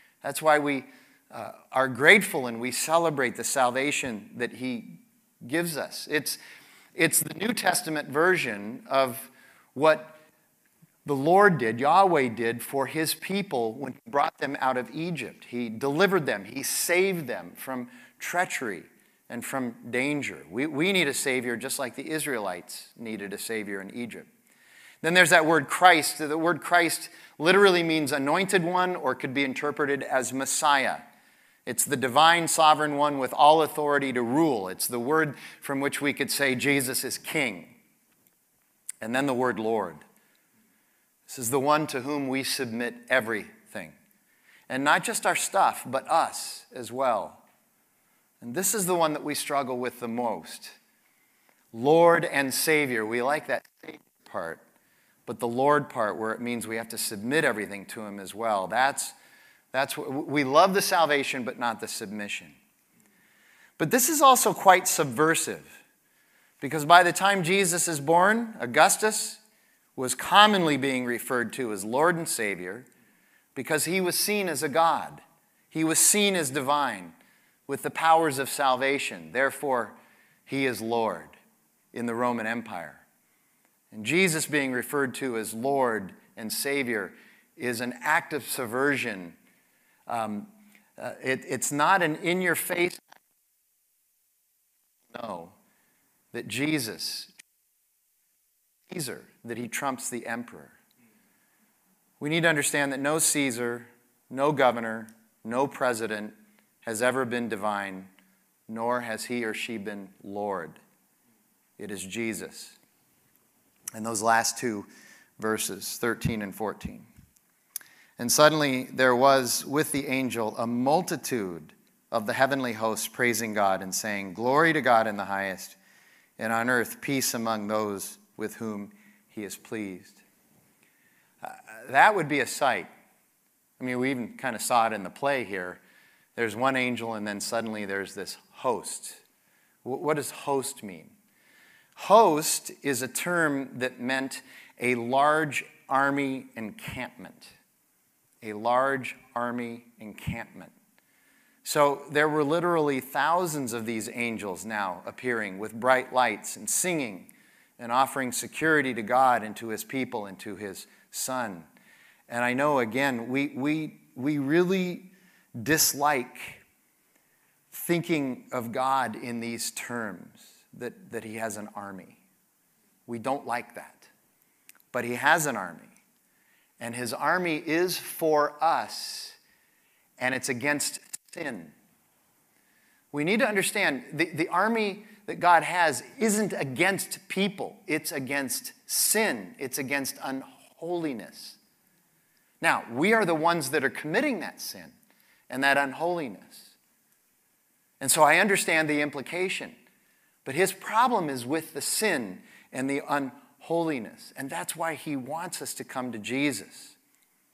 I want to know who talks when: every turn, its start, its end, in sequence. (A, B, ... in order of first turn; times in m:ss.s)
0:00.2-0:06.4 A
0:06.9-0:10.2 A
0:11.0-0:24.3 A
0:25.0-0:31.0 A
0:31.6-0:37.7 A
0:39.0-0:40.0 A
0:41.3-0:44.0 A
0:44.7-0:47.4 A
0:48.4-0:50.8 A
0:51.7-0:54.6 A
0:55.2-0:59.2 A
0:59.7-1:02.6 A
1:03.8-1:05.7 A
1:06.6-1:09.4 A
1:10.0-1:12.9 A
1:13.5-1:17.1 A
1:17.7-1:20.0 A
1:20.5-1:21.4 A
1:21.9-1:23.0 A
1:23.9-1:29.4 A
1:30.1-1:33.0 A
1:35.1-1:35.5 A
1:36.3-1:37.3 A
1:38.9-1:40.7 A
1:42.2-1:48.1 A
1:48.7-1:50.8 A
1:51.8-1:52.8 A
1:53.9-1:57.1 A
1:58.2-2:05.8 A
2:06.4-2:10.2 A
2:11.4-2:12.9 A
2:13.8-2:15.8 A
2:16.4-2:19.2 A
2:19.8-2:21.1 A
2:22.0-2:27.5 A
2:28.4-2:30.7 A
2:31.6-2:41.7 A
2:42.3-2:46.6 A
2:47.7-2:52.2 A
2:53.1-2:54.1 A
2:54.9-2:55.9 A
2:56.8-2:59.4 A
3:00.2-3:01.7 A
3:03.1-3:11.6 A
3:12.6-3:14.9 A
3:15.5-3:16.7 A
3:18.0-3:19.8 A
3:20.4-3:27.0 A